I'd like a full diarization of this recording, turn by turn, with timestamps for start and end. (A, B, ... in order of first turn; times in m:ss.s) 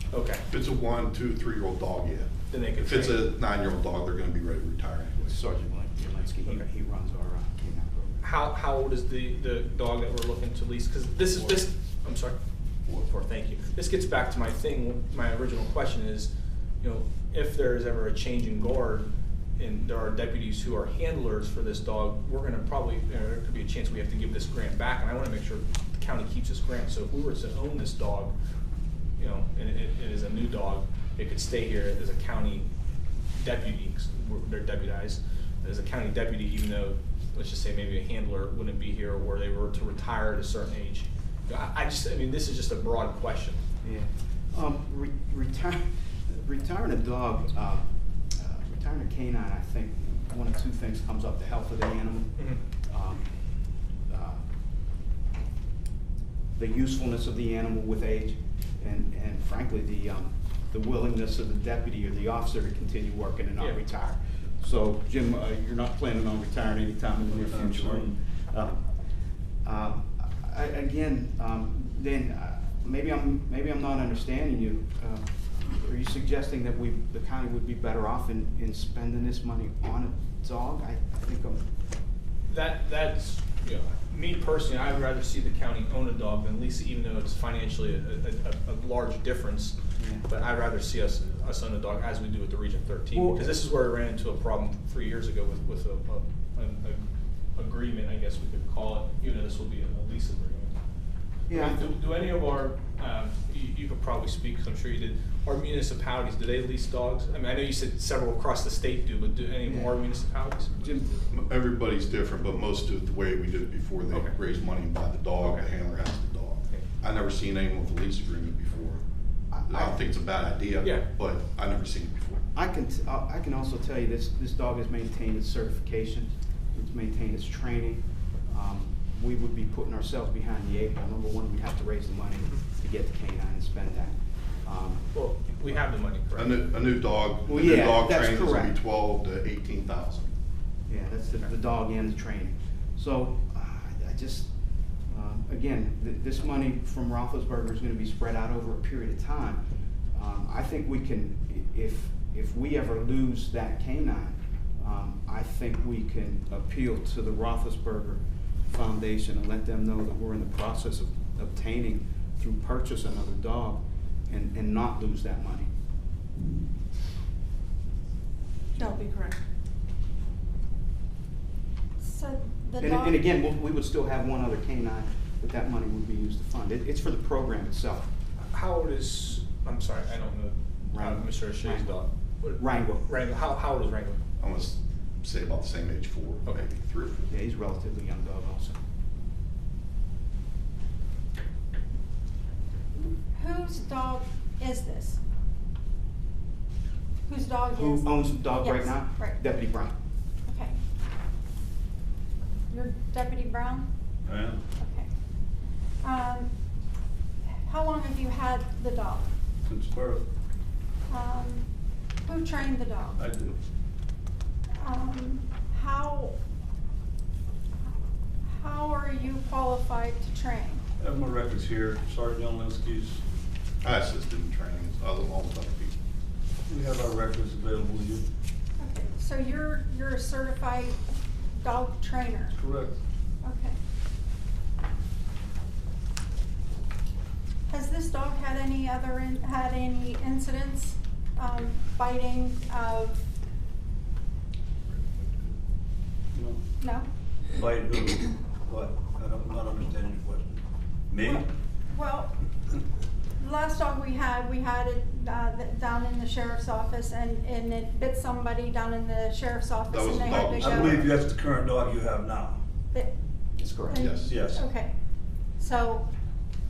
0:00.1-0:00.4 A
0:00.5-0:05.3 B
0:02.5-0:03.2 A
0:05.2-0:08.2 C
0:08.2-0:12.4 A
0:12.9-0:28.3 A
0:29.2-0:32.7 A
0:33.4-0:43.6 A
0:43.8-0:53.3 C
0:54.1-0:54.4 C
0:56.6-1:08.9 C
1:07.2-1:08.1 D
1:09.6-1:21.6 C
1:22.5-1:37.0 A
1:30.0-1:30.3 C
1:33.1-1:33.6 C
1:37.6-1:40.8 A
1:41.5-1:41.9 C
1:41.5-1:50.8 A
1:49.6-1:50.0 C
1:50.8-1:51.2 C
1:51.3-1:59.0 B
1:59.5-2:00.0 C
1:59.7-2:02.4 B
2:02.6-2:15.0 C
2:15.1-2:16.6 A
2:16.4-2:20.3 B
2:17.5-2:18.7 C
2:20.9-2:24.5 C
2:25.1-2:29.6 C
2:30.1-2:45.7 C
2:48.8-2:49.4 E
2:52.0-2:53.2 E
2:52.8-2:58.1 C
2:58.5-3:04.2 A
3:00.9-3:02.0 C
3:02.6-3:03.1 C
3:04.4-3:07.3 B
3:07.3-3:08.8 C
3:13.3-3:15.2 E
3:17.3-3:19.4 E
3:17.7-3:19.9 C
3:20.5-3:20.8 E
3:22.7-3:23.9 E
3:24.2-3:24.6 D
3:24.8-3:25.1 E
3:26.0-3:26.5 E
3:27.6-3:29.3 E
3:29.7-3:30.3 D
3:31.1-3:31.7 E
3:32.2-3:33.2 E
3:33.2-3:33.6 D
3:34.8-3:36.4 E
3:38.5-3:40.8 E
3:41.0-3:43.2 D
3:43.8-3:46.0 B
3:46.7-3:48.3 D
3:48.8-3:52.5 E
3:52.5-3:53.0 D
3:53.4-3:53.8 E
3:57.7-4:03.2 E
4:06.3-4:06.6 D
4:06.8-4:07.1 E
4:07.5-4:11.5 D
4:11.2-4:12.3 E
4:13.4-4:20.9 E
4:19.9-4:21.1 B
4:20.6-4:22.6 D
4:23.6-4:24.0 C
4:23.9-4:24.3 B
4:23.9-4:25.0 E
4:24.2-4:24.7 D
4:25.6-4:26.1 E